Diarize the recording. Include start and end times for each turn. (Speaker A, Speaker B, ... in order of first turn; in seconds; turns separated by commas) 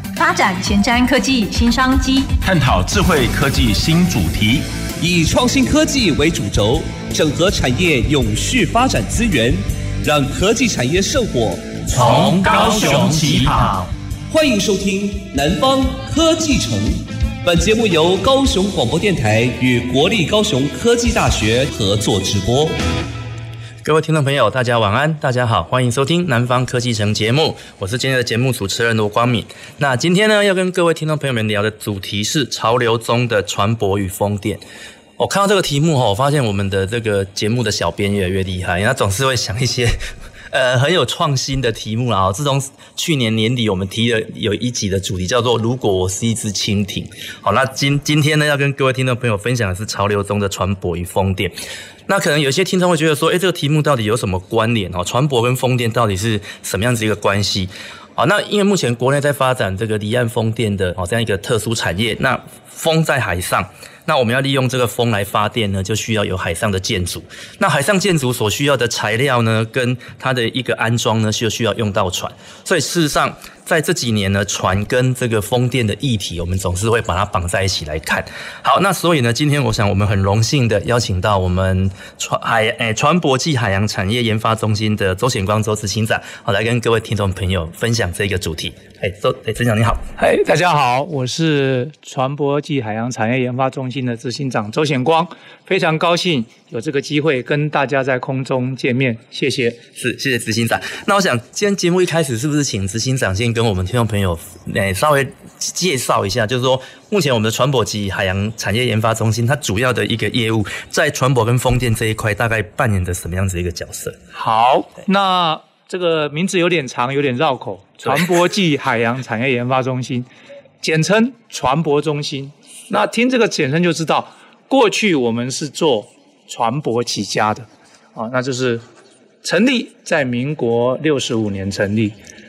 Speaker A: 0.2-2.3, Speaker B: 2.4-4.7, Speaker C: 5.0-11.9, Speaker B: 11.9-13.9, Speaker D: 11.9-13.6, Speaker C: 14.3-22.8, Speaker D: 23.8-34.6, Speaker D: 35.2-51.6, Speaker D: 52.1-90.1, Speaker E: 90.2-99.8, Speaker D: 100.0-114.2, Speaker E: 114.3-120.3, Speaker E: 120.8-128.8, Speaker E: 129.4-132.2